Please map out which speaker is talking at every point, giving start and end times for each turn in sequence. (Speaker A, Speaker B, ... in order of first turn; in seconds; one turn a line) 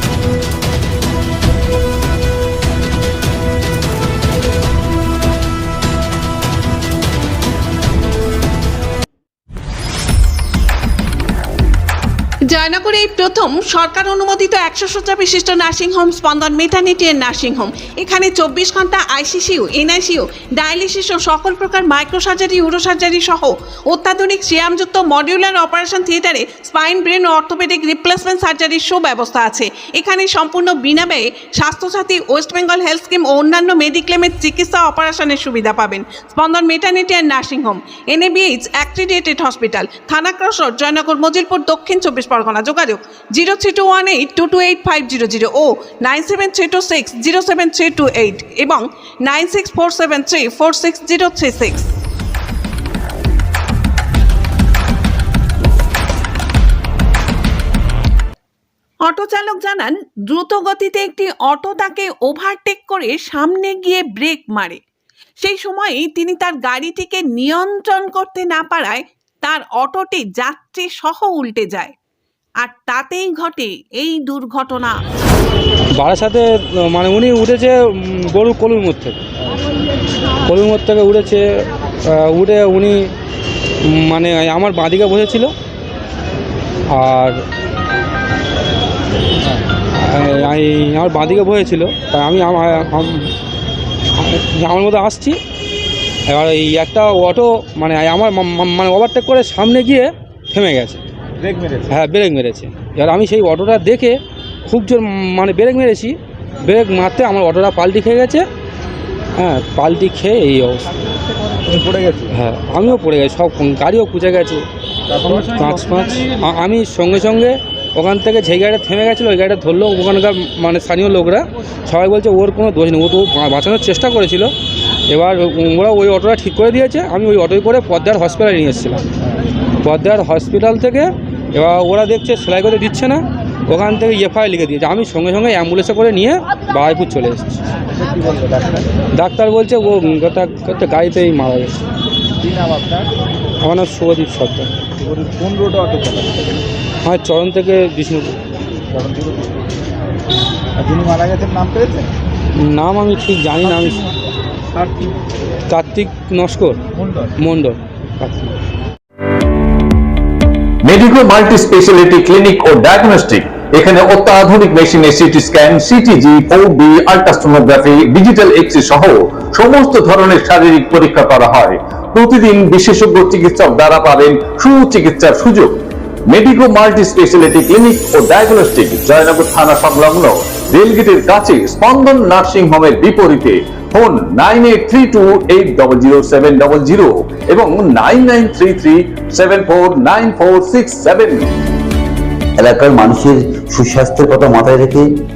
Speaker A: 12.5-51.9
Speaker A: 59.1-64.8
Speaker A: 65.4-71.9
Speaker A: 72.6-75.0
Speaker B: 75.9-79.2
Speaker B: 80.5-83.1
Speaker B: 83.9-85.5
Speaker B: 86.9-87.4
Speaker B: 89.9-93.3
Speaker B: 94.1-95.4
Speaker B: 96.3-101.0
Speaker C: 101.4-101.9
Speaker B: 101.9-108.5
Speaker B: 109.4-110.9
Speaker C: 111.7-112.3
Speaker B: 112.3-114.6
Speaker C: 115.1-115.7
Speaker B: 115.4-124.5
Speaker B: 125.1-129.0
Speaker B: 129.8-137.6
Speaker C: 138.0-138.8
Speaker B: 139.2-141.8
Speaker C: 142.4-143.1
Speaker B: 143.6-144.7
Speaker C: 145.0-146.6
Speaker B: 147.0-148.4
Speaker C: 148.9-149.6
Speaker C: 150.8-152.1
Speaker B: 152.6-154.0
Speaker C: 154.8-155.1
Speaker B: 155.7-156.8
Speaker B: 157.4-158.5
Speaker D: 160.8-175.7
Speaker D: 176.3-191.5
Speaker E: 192.6-195.1